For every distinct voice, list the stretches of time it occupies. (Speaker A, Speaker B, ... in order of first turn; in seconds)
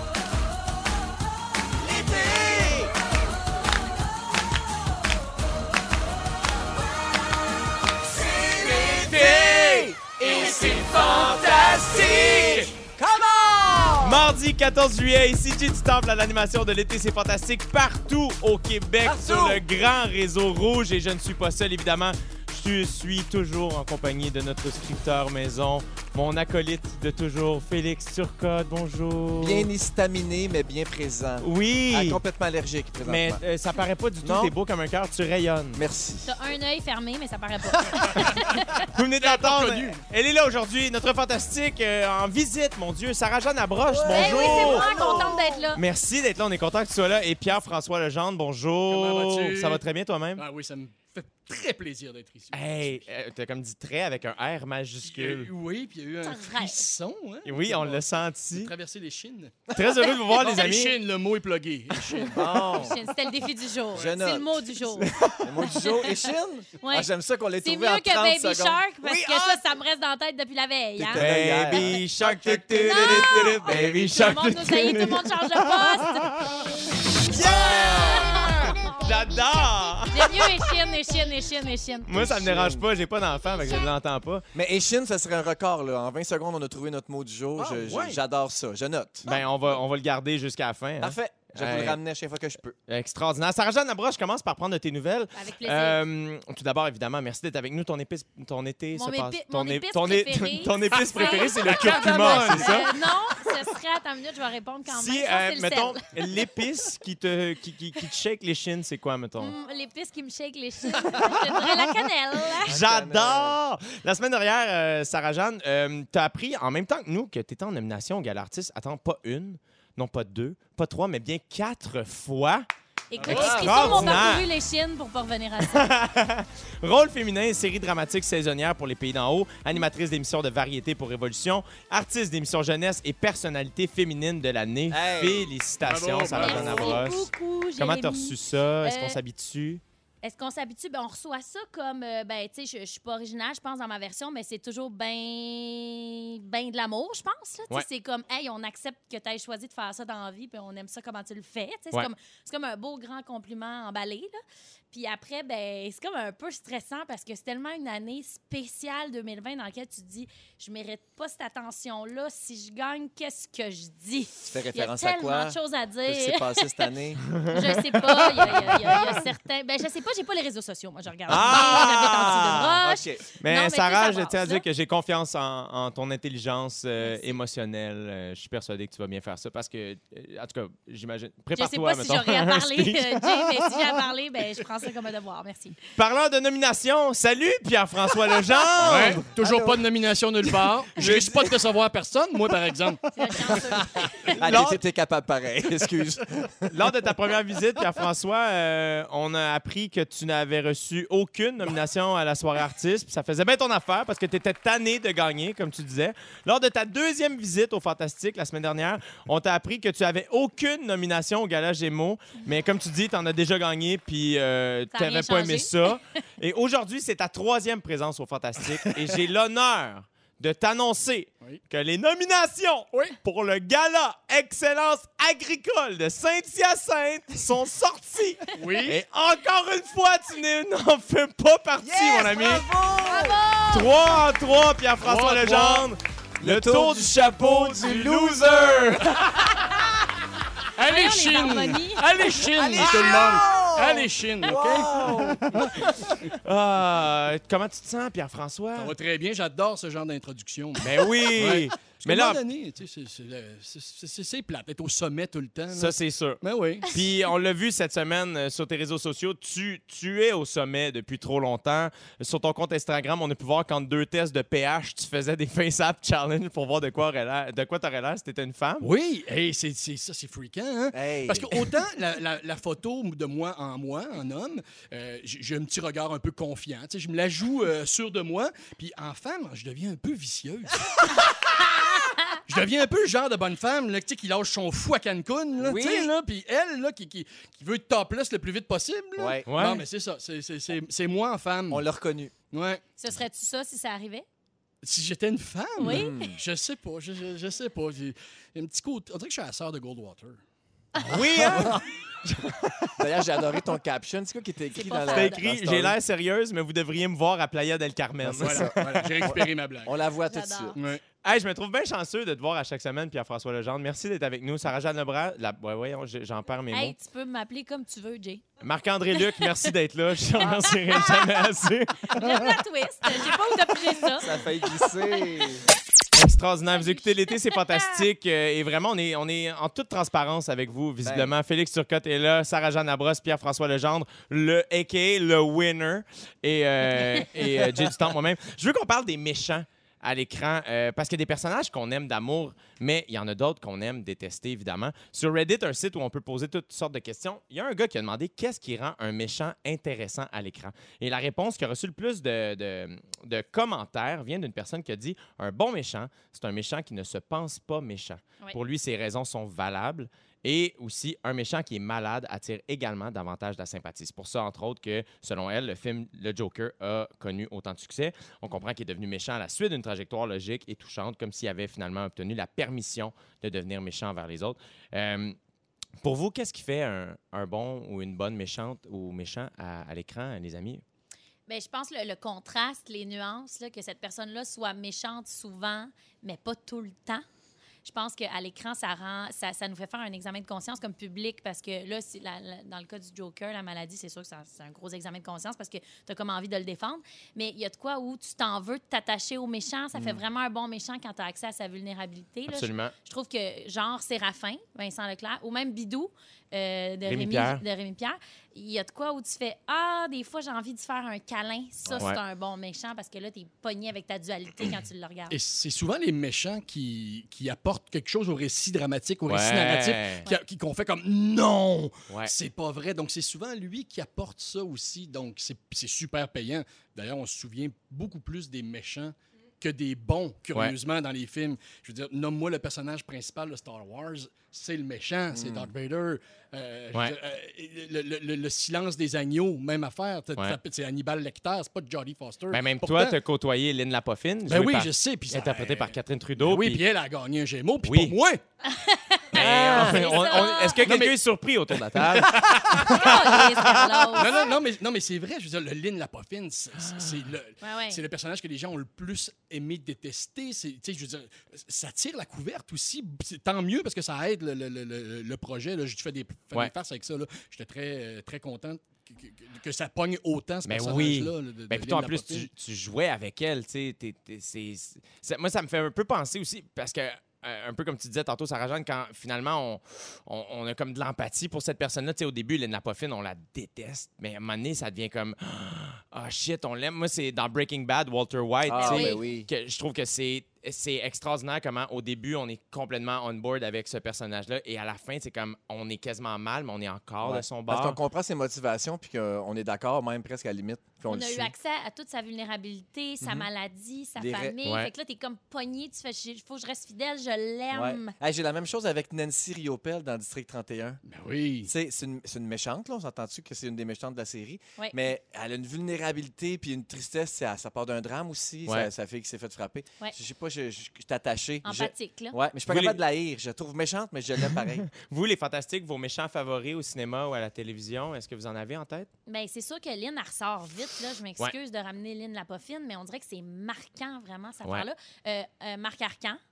Speaker A: 1.8-2.9, 8.4-14.4, 19.0-19.6, 29.4-33.4, 34.2-34.5, 35.7-36.3, 43.9-45.7, 62.2-63.0, 63.9-64.6, 65.4-69.6, 71.0-74.3, 77.3-78.8, 82.1-82.9, 84.5-89.3, 91.0-92.8, 112.6-113.6, 123.3-123.9, 134.9-135.5, 136.4-137.1, 164.4-167.4, 171.3-173.2, 188.8-189.9, 190.9-191.5, 193.5-196.8, 231.8-233.4, 236.4-239.7, 242.5-245.9, 270.9-271.7, 285.6-286.1, 289.2-289.4, 291.7-292.3, 295.8-296.4, 301.4-301.8, 302.9-306.0, 308.2-310.8, 324.2-325.6, 331.0-331.3, 399.9-400.2, 435.3-435.7, 488.6-489.5, 497.2-501.5, 503.2-503.5, 504.2-504.6, 507.7-511.0, 511.6-524.9
Speaker B: 10.4-10.9, 39.2-40.0, 48.9-49.8, 50.4-53.0, 55.0-59.7, 60.3-62.4, 87.6-88.2, 101.1-102.8, 123.2-124.3, 135.8-137.0, 188.8-193.0, 228.6-229.0, 235.0-235.9, 240.8-244.9, 245.5-245.9, 248.8-256.9, 268.8-281.3, 282.5-291.9, 292.5-292.8, 294.8-300.4, 301.0-301.8, 308.3-309.9, 310.7-311.0, 415.3-443.2, 444.5-448.4, 449.4-451.2, 451.7-453.4, 454.1-472.5, 511.0-511.7
Speaker C: 14.0-29.7, 31.4-32.2, 33.0-35.8, 38.9-45.1, 45.8-50.4, 52.5-55.5, 57.4-58.7, 59.7-61.0, 65.0-65.5, 71.1-76.6, 77.2-80.5, 82.1-84.5, 89.2-92.0, 92.9-103.0, 104.9-109.5, 112.6-122.6, 123.3-124.5, 125.6-139.8, 171.3-172.8, 173.4-183.9, 185.9-189.2, 194.4-194.8, 196.7-232.6, 233.7-239.8, 246.4-248.9, 250.8-252.4, 255.7-268.9, 289.5-289.8, 301.0-302.9, 305.1-309.1, 311.2-316.9, 318.6-322.5, 326.1-375.4, 376.0-380.8, 402.5-402.9, 407.1-407.6, 411.9-412.2, 419.3-420.2, 442.5-446.8, 447.8-448.1, 449.3-454.2, 456.8-457.1, 470.6-498.0, 504.6-504.9, 522.7-523.0, 524.4-529.1
Speaker D: 36.2-38.9, 44.1-45.8, 56.2-56.8, 60.0-60.5, 62.5-65.1, 65.6-66.2, 66.8-67.1, 67.6-76.3, 77.3-78.9, 80.1-82.1, 95.3-96.0, 98.9-106.1, 109.4-112.7, 123.1-125.8, 136.3-139.2, 140.2-154.4, 154.9-166.9, 167.4-174.6, 177.0-177.4, 181.6-185.8, 193.1-194.4, 214.9-216.2, 233.0-234.1, 240.8-242.0, 282.0-282.4, 293.0-294.2, 295.8-296.3, 304.7-305.4, 310.3-310.8, 316.7-318.4, 319.2-319.5, 320.4-321.3, 322.1-324.4, 326.7-328.0, 381.5-387.2, 387.8-415.4, 448.6-450.8, 452.9-454.5, 457.6-458.0, 488.8-489.2, 501.1-508.1, 514.8-515.1, 521.6-522.4, 529.3-536.4